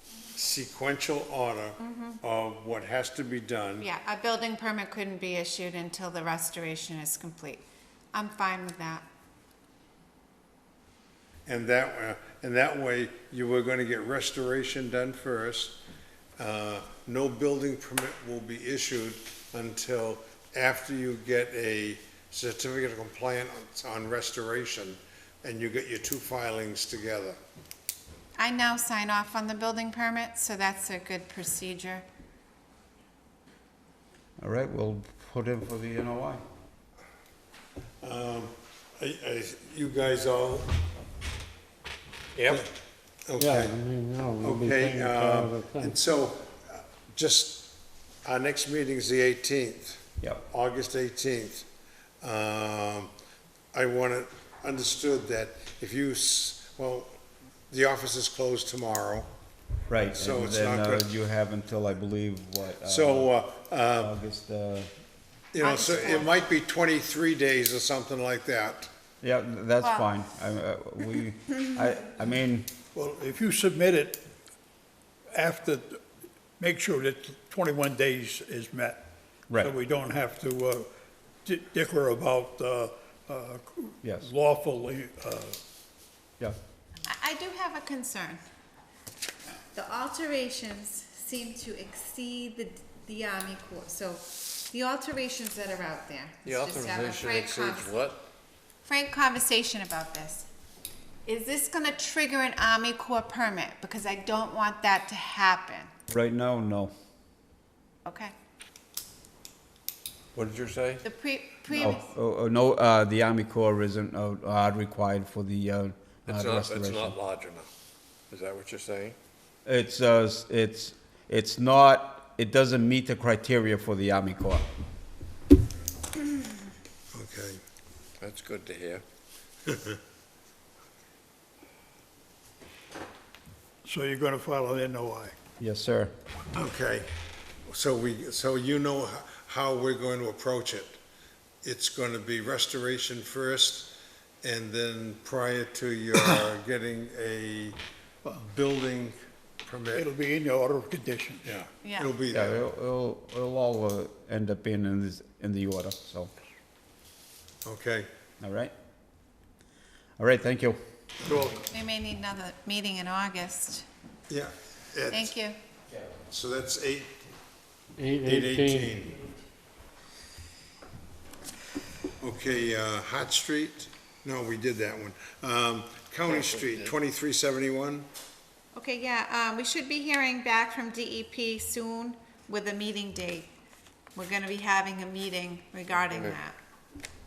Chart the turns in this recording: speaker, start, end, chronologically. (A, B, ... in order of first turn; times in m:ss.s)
0:00.4-0:03.9 A
0:01.8-0:02.2 B
0:03.8-0:09.0 B
0:11.5-0:15.8 A
0:16.4-0:27.4 A
0:28.4-0:32.0 B
0:34.4-0:36.4 C
0:38.0-0:40.7 A
0:42.4-0:42.6 D
0:43.3-0:43.8 A
0:43.4-0:46.0 E
0:44.4-0:51.7 A
0:52.2-0:53.1 A
0:53.7-0:57.2 A
0:57.7-0:59.3 A
0:59.9-1:03.3 C
1:00.2-1:01.1 A
1:02.8-1:04.1 A
1:04.0-1:04.9 C
1:05.5-1:08.9 A
1:05.6-1:06.3 B
1:09.2-1:12.7 C
1:09.8-1:10.1 B
1:12.9-1:14.3 F
1:15.3-1:16.0 F
1:16.6-1:20.9 F
1:21.4-1:25.6 F
1:24.0-1:24.3 C
1:27.1-1:28.4 B
1:29.7-1:38.0 B
1:36.4-1:38.2 D
1:38.8-1:40.5 B
1:41.3-1:45.9 B
1:46.1-1:46.9 C
1:48.1-1:48.3 B
1:50.4-1:51.0 D
1:51.0-1:52.1 B
1:51.7-1:57.2 C
1:56.3-1:57.7 D
1:58.3-1:59.2 D
1:59.7-2:04.7 C
2:07.1-2:07.6 A
2:08.2-2:09.0 D
2:09.7-2:10.0 A
2:13.8-2:15.4 F
2:15.6-2:16.1 C
2:16.5-2:17.1 A
2:17.7-2:21.0 A
2:21.6-2:27.8 A
2:28.4-2:30.1 A
2:29.9-2:31.5 F
2:31.4-2:32.6 A
2:31.8-2:32.1 B
2:32.3-2:36.3 C
2:37.6-2:38.1 A
2:38.4-2:38.7 C
2:40.2-2:40.8 C
2:41.2-2:41.7 F
2:41.7-2:43.9 B
2:44.3-2:45.3 A
2:45.1-2:45.6 B
2:46.3-2:47.2 A
2:48.0-2:49.0 E
2:48.2-2:49.2 A
2:52.2-2:58.1 A
2:56.3-2:56.9 D
2:58.8-3:03.5 B
3:04.2-3:06.6 B
3:06.0-3:06.4 D